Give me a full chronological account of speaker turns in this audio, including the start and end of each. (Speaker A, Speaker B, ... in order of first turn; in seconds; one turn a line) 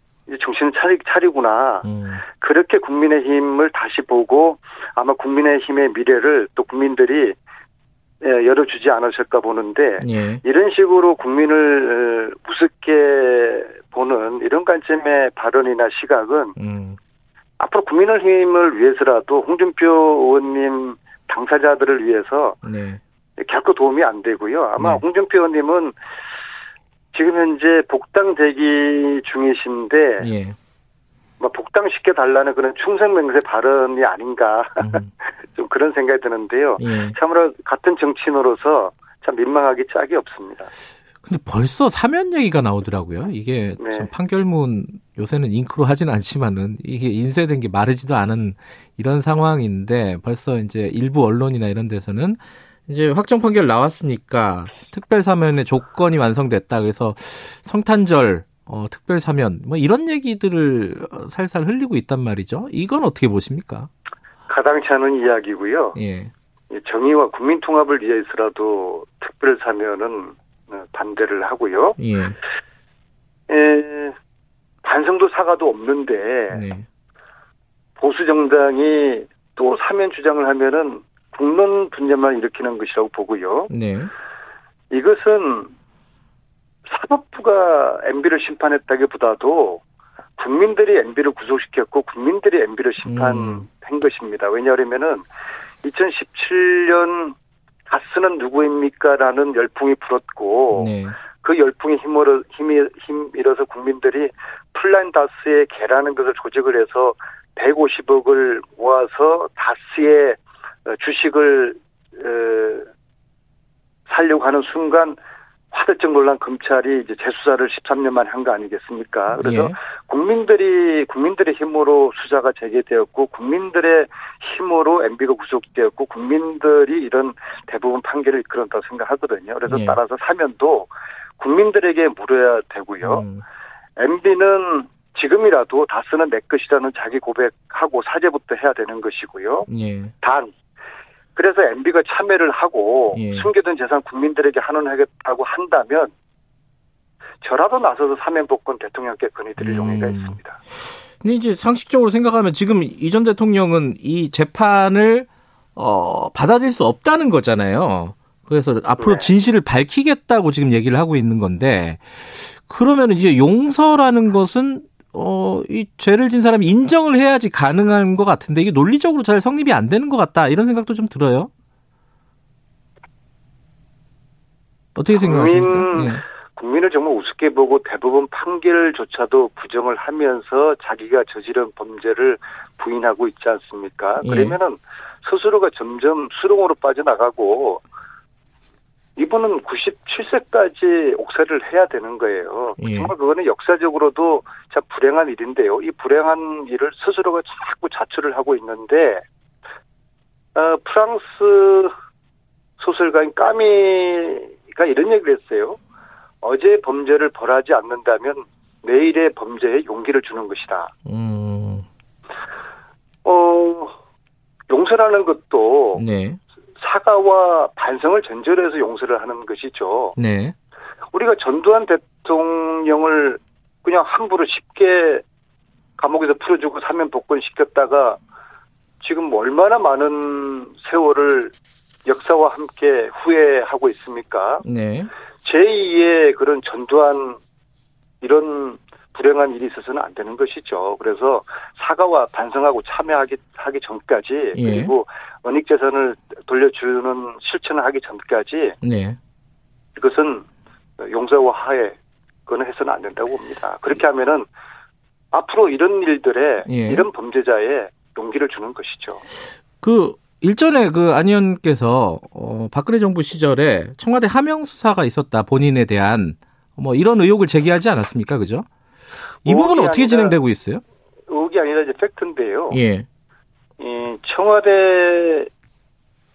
Speaker A: 0.3-7.4
Speaker B: 1.8-2.2
Speaker A: 8.2-16.6
Speaker B: 10.0-10.4
Speaker B: 16.6-17.0
Speaker A: 17.6-22.6
Speaker B: 22.6-23.0
Speaker A: 23.4-25.9
Speaker B: 24.8-25.0
Speaker A: 27.1-30.3
Speaker B: 30.2-30.6
Speaker A: 31.4-40.7
Speaker B: 34.8-35.1
Speaker B: 36.8-37.2
Speaker B: 41.2-63.9
Speaker A: 43.8-44.1
Speaker A: 64.5-66.0
Speaker B: 66.0-66.3
Speaker A: 66.7-72.0
Speaker B: 72.0-72.4
Speaker A: 73.5-74.2
Speaker A: 74.8-76.7
Speaker B: 76.5-76.8
Speaker A: 78.0-83.7
Speaker B: 83.7-84.1
Speaker A: 84.9-85.7
Speaker A: 86.9-89.8
Speaker A: 90.4-95.3
Speaker B: 93.0-93.7
Speaker A: 95.8-97.4
Speaker A: 97.9-112.9
Speaker B: 100.7-101.2
Speaker A: 114.1-115.2
Speaker A: 115.7-133.3
Speaker B: 119.3-119.7
Speaker B: 129.7-130.0
Speaker B: 133.0-133.4
Speaker A: 134.0-139.7
Speaker B: 139.7-140.1
Speaker A: 140.2-140.5
Speaker A: 141.4-146.1
Speaker B: 143.1-143.5
Speaker A: 147.4-150.6
Speaker B: 149.6-150.4
Speaker B: 151.2-171.5
Speaker A: 159.0-159.3
Speaker B: 175.0-176.2
Speaker A: 175.1-187.8
Speaker B: 184.2-184.6
Speaker A: 189.2-199.2
Speaker B: 192.8-193.1
Speaker A: 200.6-201.9
Speaker A: 202.8-205.8
Speaker A: 206.4-210.9
Speaker B: 211.1-211.9
Speaker A: 213.2-214.0
Speaker A: 214.7-216.0
Speaker B: 215.9-216.4
Speaker A: 216.8-220.2
Speaker B: 220.2-220.5
Speaker A: 221.1-225.2
Speaker A: 226.0-228.2
Speaker A: 229.0-231.5
Speaker A: 232.1-234.7
Speaker B: 234.6-235.1
Speaker A: 235.4-237.4
Speaker A: 238.2-248.8
Speaker B: 244.6-244.9
Speaker B: 248.8-249.2
Speaker A: 250.0-250.5
Speaker A: 251.0-254.5
Speaker A: 255.3-259.2
Speaker B: 256.7-257.1
Speaker B: 259.8-268.7
Speaker B: 269.4-270.8
Speaker A: 269.4-270.4
Speaker A: 271.3-272.8
Speaker B: 272.7-273.1
Speaker A: 273.8-275.5